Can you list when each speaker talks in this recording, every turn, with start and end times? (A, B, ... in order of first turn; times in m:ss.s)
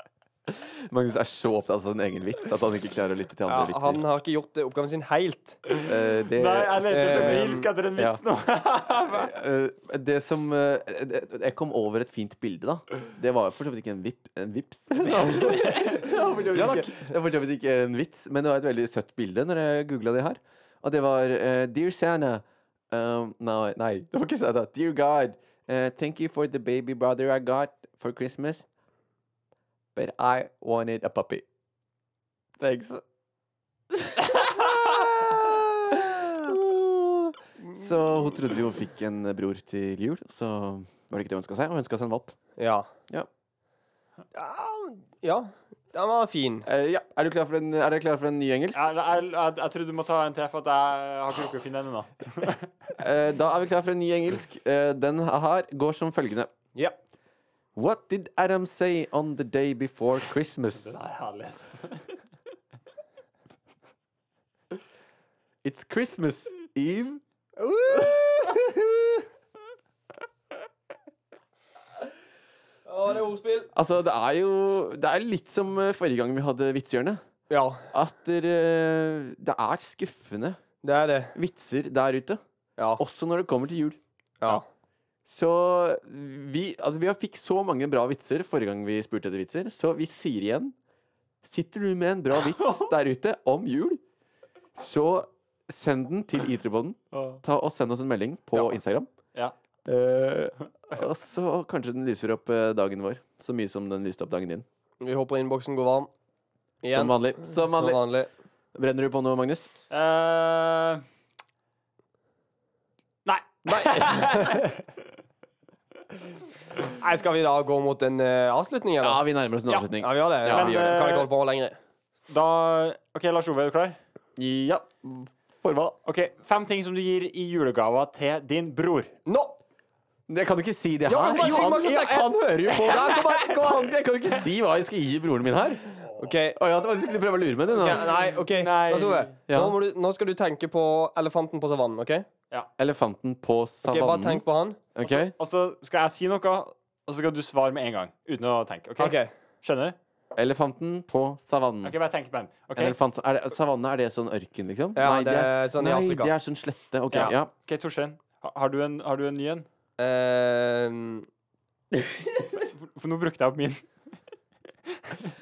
0:00.5-0:04.0 A
0:03.5-0:05.6 B
0:05.8-0:08.2 A
0:06.3-0:09.3 C
0:06.9-0:07.7 B
0:09.1-0:28.6 A
0:15.4-0:16.1 C
0:16.5-0:17.1 B
0:29.9-0:31.4 A
0:32.6-0:33.0 A
0:33.9-0:42.4 A
0:42.6-0:42.9 B
0:44.3-0:46.7 B
0:46.6-0:48.8 A
0:48.7-0:52.7 C
0:53.0-0:56.5 A
0:57.8-1:00.9 A
1:00.8-1:02.1 C
1:05.6-1:08.9 A
1:12.8-1:13.7 B
1:13.7-1:17.2 A
1:17.5-1:17.9 B
1:17.9-1:20.6 A
1:20.8-1:21.4 B
1:21.3-1:22.4 A
1:22.8-1:23.0 B
1:23.0-1:24.0 A
1:25.2-1:30.7 A
1:31.4-1:34.0 A
1:32.5-1:32.9 C
1:34.7-1:39.1 A
1:37.1-1:37.4 C
1:39.9-1:44.6 A
1:45.0-1:46.1 B
1:46.8-1:48.3 B
1:46.9-1:48.0 A
1:48.7-1:49.7 A
1:49.9-1:51.0 C
1:53.2-1:54.9 C
1:53.7-1:54.1 A
1:53.8-1:54.7 B
1:56.8-1:59.2 B
1:59.0-2:00.9 A
2:00.0-2:01.8 B
2:00.4-2:01.3 C
2:02.3-2:04.0 C
2:04.4-2:06.0 A
2:06.0-2:09.2 C
2:09.2-2:09.6 B
2:10.3-2:15.8 A
2:11.1-2:13.9 B
2:16.0-2:16.3 C
2:16.2-2:16.6 B
2:16.5-2:18.1 A
2:17.7-2:22.3 B
2:18.4-2:19.3 C
2:19.5-2:19.8 A
2:22.8-2:24.4 A
2:23.8-2:24.8 B
2:24.9-2:25.3 A
2:25.0-2:30.0 C
2:29.0-2:29.3 B
2:30.3-2:31.9 A
2:31.8-2:33.0 C
2:32.8-2:37.5 A
2:34.9-2:36.3 B
2:37.1-2:39.7 C
2:40.0-2:41.3 B
2:42.7-2:43.8 C